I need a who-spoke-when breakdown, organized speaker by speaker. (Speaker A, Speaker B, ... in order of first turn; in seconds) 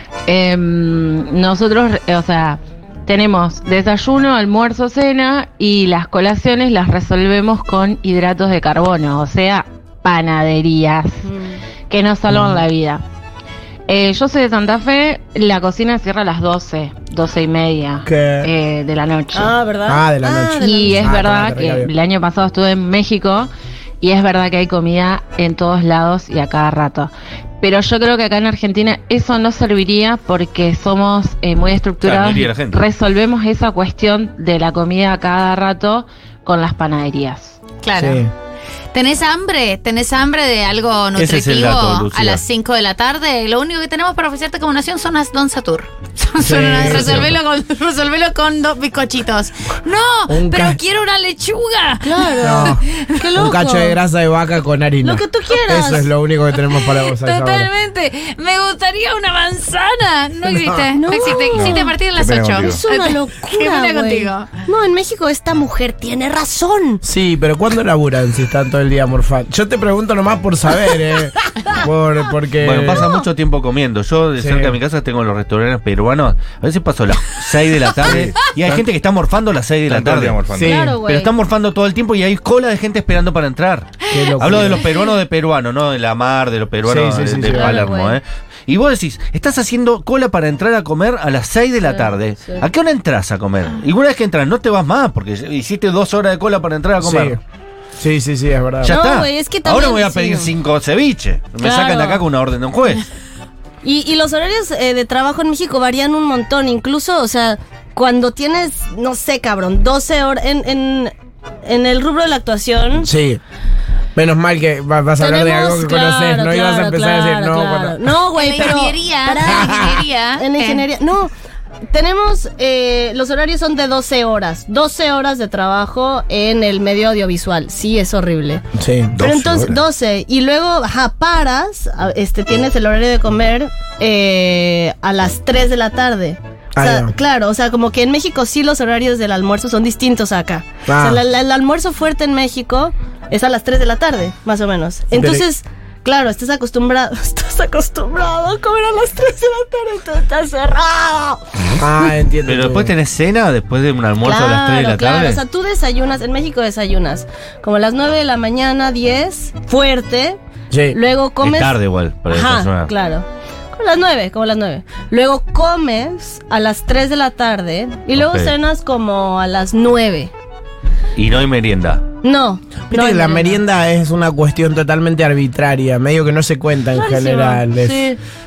Speaker A: 0.3-11.3, 11.9-13.0, 13.9-19.6, 20.6-37.6
Speaker B: 11.2-11.6, 19.3-21.1, 52.0-54.0, 55.0-56.1, 61.0-61.9, 62.6-67.0, 80.6-81.3, 87.5-88.2, 91.9-92.7, 98.9-100.5, 101.6-102.2, 103.8-111.1, 111.7-113.1, 115.2-121.3, 121.9-128.6, 129.2-151.4, 154.2-160.4, 160.9-161.8, 162.3-170.3, 172.2-173.6, 177.0-178.2
Speaker C: 12.3-12.6, 18.1-18.5, 19.9-21.9, 38.0-38.3, 46.4-47.3, 50.3-50.8, 52.4-52.8, 53.3-57.7, 60.5-60.8, 67.0-73.1, 74.4-74.8, 80.5-81.0, 84.1-84.8, 86.8-87.7, 97.0-97.4, 98.0-99.0, 113.0-113.4, 114.2-118.1, 128.8-129.2, 136.8-137.1, 140.9-141.2, 145.1-145.4, 151.8-152.9, 160.7-161.0, 172.9-178.1
Speaker D: 32.0-32.8, 41.2-42.4, 72.6-80.4, 81.0-97.4, 98.8-103.0, 152.4-155.4, 161.4-162.9, 168.1-168.5, 171.2-172.0
Speaker E: 37.8-38.2, 38.9-53.2, 57.1-64.5, 118.4-120.8
Speaker F: 61.6-62.8, 78.0-78.8, 79.9-80.8, 129.2-129.8